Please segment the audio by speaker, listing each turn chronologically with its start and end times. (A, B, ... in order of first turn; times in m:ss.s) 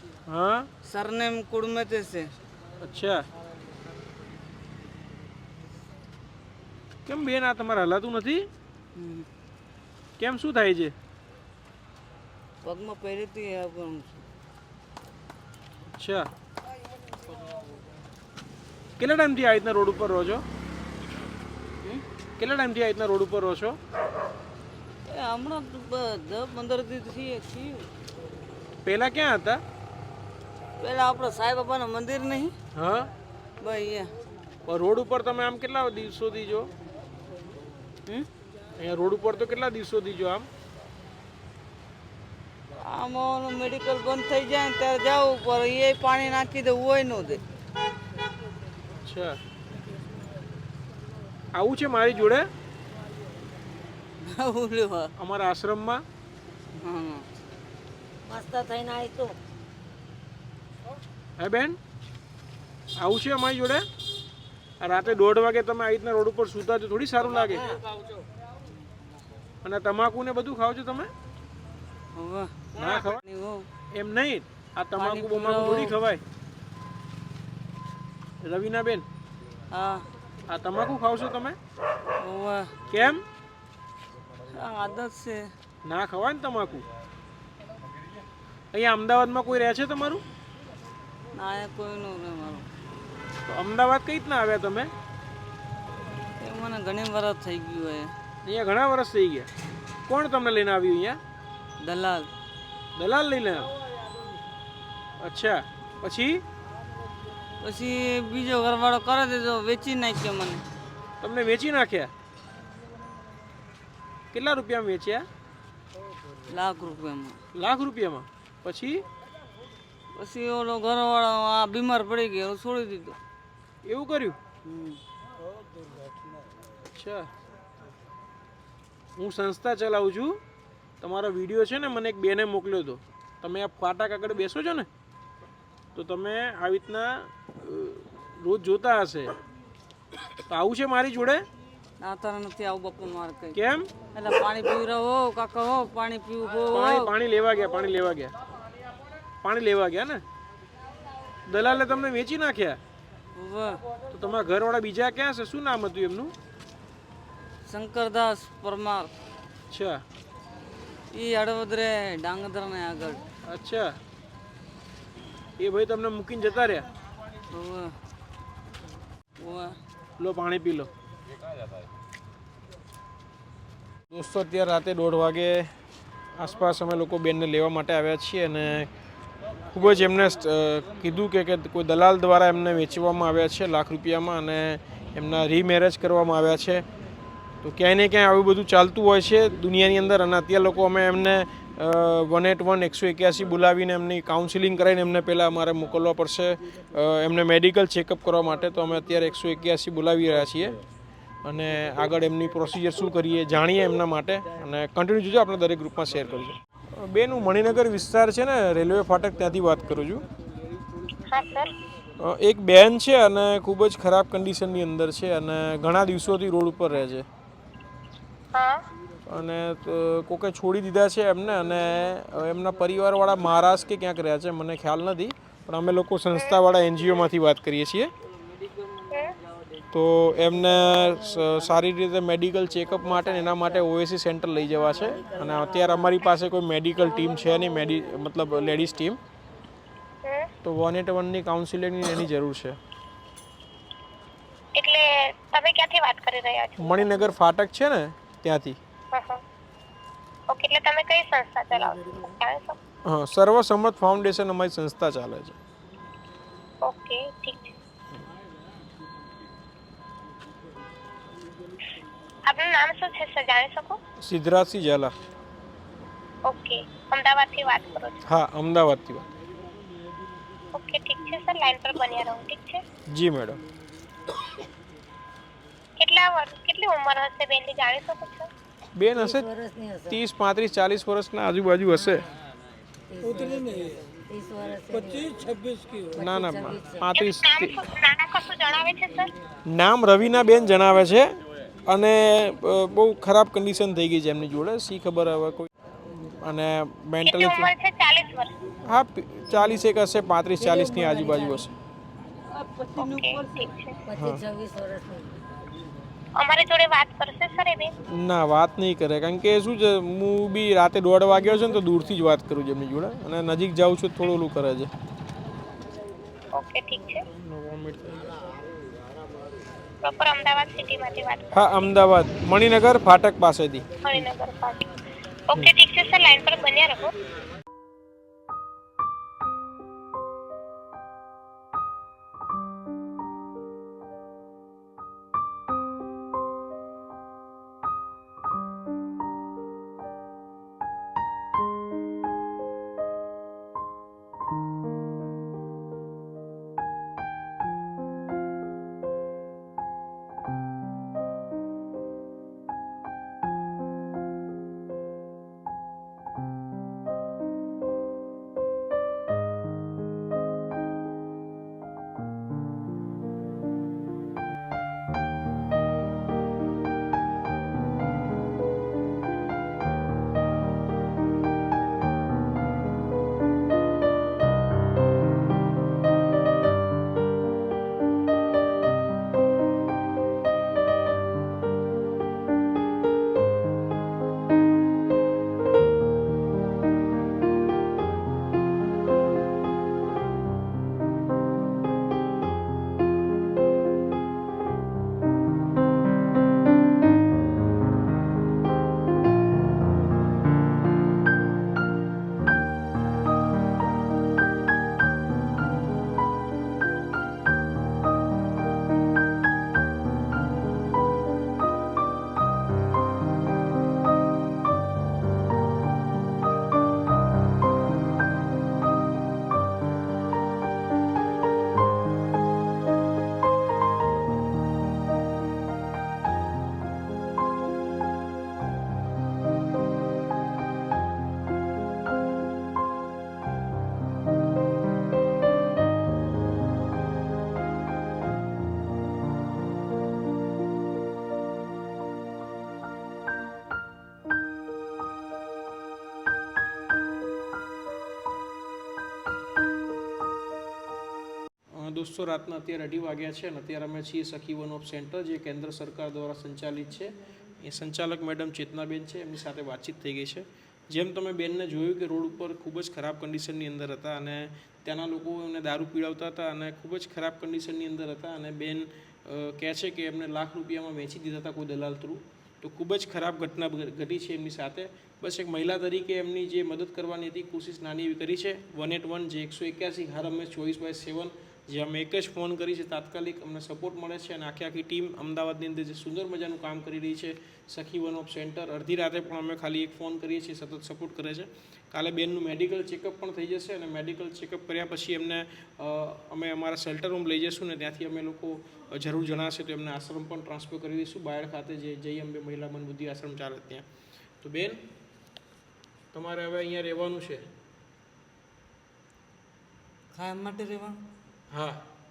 0:00.3-0:00.7 A
0:00.8-0:02.3 B
0:02.8-0:03.2 A
0:07.1-0:08.4 A
0:09.0-0:09.3 B
0:10.2-0:10.9 A
0:12.6-0:14.2 B
0:16.0-0:16.3 A
0:19.0-0:20.4 A
0:22.4-0:23.8 A
0:25.1-0:27.9 B
0:28.8-0:29.6 A
0:30.8-0:32.5 B
0:32.7-0:33.1 A
0:33.6-0:34.1 B
0:34.7-0:36.7 A
0:38.8-0:40.5 A
0:42.8-0:47.4 B
0:49.0-0:49.4 A
0:51.5-0:52.5 A
0:54.2-0:55.1 B
0:55.2-0:56.0 A
0:56.8-0:57.3 B
0:58.3-0:59.3 C
1:01.4-1:01.8 A
1:03.0-1:03.9 A
1:04.8-1:07.7 A
1:07.5-1:07.8 C
1:09.6-1:11.1 A
1:12.1-1:13.7 B
1:12.8-1:13.2 A
1:13.9-1:16.2 A
1:15.0-1:15.9 B
1:18.4-1:19.1 A
1:19.7-1:20.1 B
1:20.5-1:21.6 A
1:22.2-1:22.8 B
1:22.9-1:23.2 A
1:24.5-1:25.5 B
1:25.8-1:26.9 A
1:28.7-1:30.2 A
1:31.4-1:32.7 B
1:33.4-1:34.9 A
1:36.4-1:38.1 B
1:38.4-1:39.5 A
1:40.1-1:41.2 A
1:41.8-1:42.3 B
1:43.0-1:43.7 A
1:45.2-1:46.4 A
1:47.6-1:50.6 B
1:51.2-1:52.1 A
1:54.3-1:55.2 A
1:56.5-1:57.4 B
1:57.6-1:59.0 A
2:00.1-2:03.2 B
2:03.8-2:04.4 A
2:04.7-2:05.0 B
2:06.9-2:07.3 A
2:09.2-2:10.4 A
2:11.0-2:14.9 A
2:16.0-2:19.3 A
2:20.5-2:21.4 A
2:22.0-2:23.6 B
2:23.5-2:23.9 A
2:24.1-2:27.1 B
2:26.7-2:28.3 A
2:29.4-2:30.2 A
2:31.5-2:32.8 A
2:33.4-2:33.8 B
2:34.1-2:36.3 A
2:37.7-2:39.1 B
2:39.7-2:40.0 A
2:41.1-2:43.2 B
2:43.5-2:44.0 A
2:45.6-2:46.9 A
2:47.5-2:47.9 B
2:49.4-2:49.8 B
2:50.2-2:50.9 A
2:54.1-2:55.7 A
2:56.4-2:58.9 A
2:59.7-3:06.8 A
3:07.6-3:20.8 A
3:21.4-3:30.2 A
3:31.3-3:31.7 D
3:32.2-3:37.2 A
3:38.5-3:38.8 D
3:39.3-3:48.1 A
3:49.1-3:49.4 D
3:49.9-3:59.2 A
3:55.1-3:56.1 C
4:00.6-4:02.8 A
4:04.8-4:07.3 D
4:06.8-4:08.8 A
4:09.1-4:09.4 D
4:10.5-4:12.8 D
4:13.0-4:15.6 A
4:16.8-4:17.7 D
4:22.5-4:24.0 D
4:24.2-4:25.1 A
4:26.5-4:28.2 D
4:28.3-4:29.2 A
4:30.7-4:32.8 D
4:33.1-4:33.6 A
4:36.0-4:38.5 D
4:39.0-4:39.5 A
4:39.1-4:40.2 C
4:40.1-4:42.3 A
4:43.1-4:47.0 C
4:46.2-4:47.8 A
4:47.2-4:49.3 D
4:49.7-4:51.3 A
4:51.9-4:55.7 A
4:56.2-4:57.7 A
4:57.2-4:58.5 D
4:58.9-5:01.7 A
5:00.7-5:01.5 B
5:02.5-5:03.7 B
5:03.0-5:04.0 D
5:04.1-5:05.3 C
5:04.2-5:04.4 A
5:06.4-5:07.9 D
5:08.1-5:14.9 A
5:16.5-5:17.2 D
5:17.4-5:18.4 A
5:20.0-5:21.5 D
5:21.5-5:23.9 A
5:24.0-5:24.8 D
5:25.5-5:27.1 D
7:31.8-8:23.8 A
8:24.4-8:24.8 A
8:26.1-8:27.5 A
8:30.1-8:31.0 B
8:31.5-8:31.8 A